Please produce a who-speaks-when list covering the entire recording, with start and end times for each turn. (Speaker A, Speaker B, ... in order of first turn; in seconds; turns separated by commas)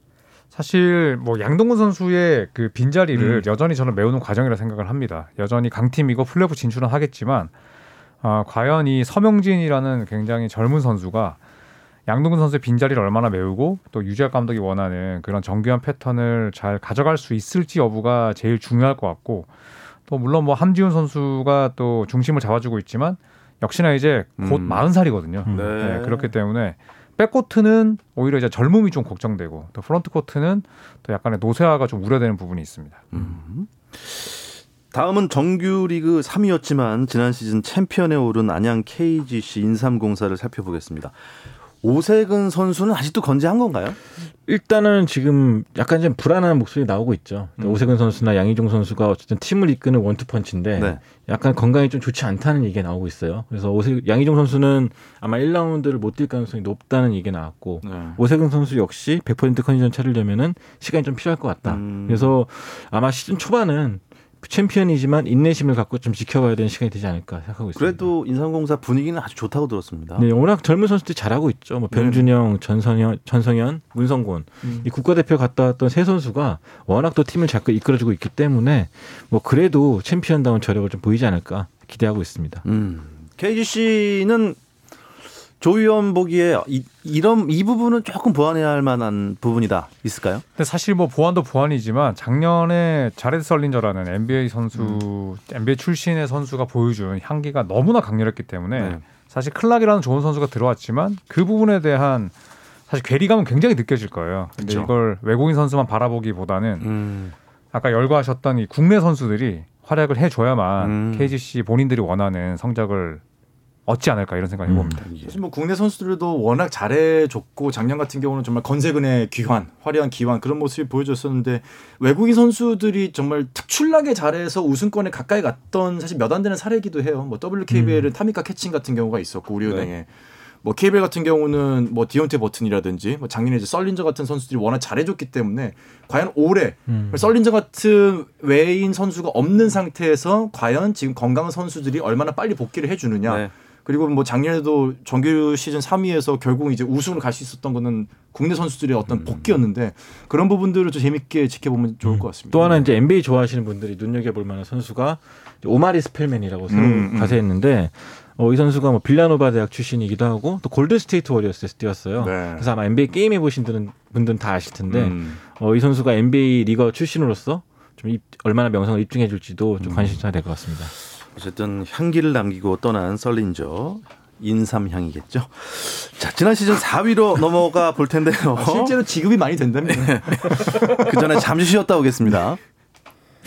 Speaker A: 0.5-7.5, Speaker A: 8.2-11.4, Speaker A: 12.1-19.5, Speaker A: 20.1-33.1, Speaker B: 24.4-24.8, Speaker C: 25.4-25.7, Speaker D: 25.5-26.3, Speaker D: 33.1-41.2, Speaker D: 41.8-44.0, Speaker C: 44.5-68.1, Speaker D: 50.8-51.0, Speaker B: 57.8-58.2, Speaker D: 61.6-62.3, Speaker D: 67.8-70.2, Speaker C: 70.2-82.6, Speaker B: 71.9-72.2, Speaker D: 82.6-84.6, Speaker D: 85.6-90.4, Speaker A: 90.6-102.3, Speaker D: 98.8-99.0, Speaker A: 102.9-106.9, Speaker B: 104.6-104.9, Speaker D: 106.8-107.3, Speaker A: 107.7-113.2, Speaker D: 110.8-111.3, Speaker A: 113.9-115.1, Speaker C: 114.7-115.0, Speaker D: 115.0-115.4, Speaker B: 115.2-130.1, Speaker C: 127.7-128.1, Speaker D: 129.7-129.9, Speaker B: 130.6-152.9, Speaker C: 136.9-137.3, Speaker D: 143.2-143.5, Speaker D: 149.1-149.6, Speaker C: 152.0-170.9, Speaker B: 156.7-157.4, Speaker B: 162.2-162.7, Speaker B: 164.9-165.4, Speaker D: 169.8-170.2, Speaker D: 171.3-179.0, Speaker B: 178.6-181.2, Speaker D: 179.8-182.6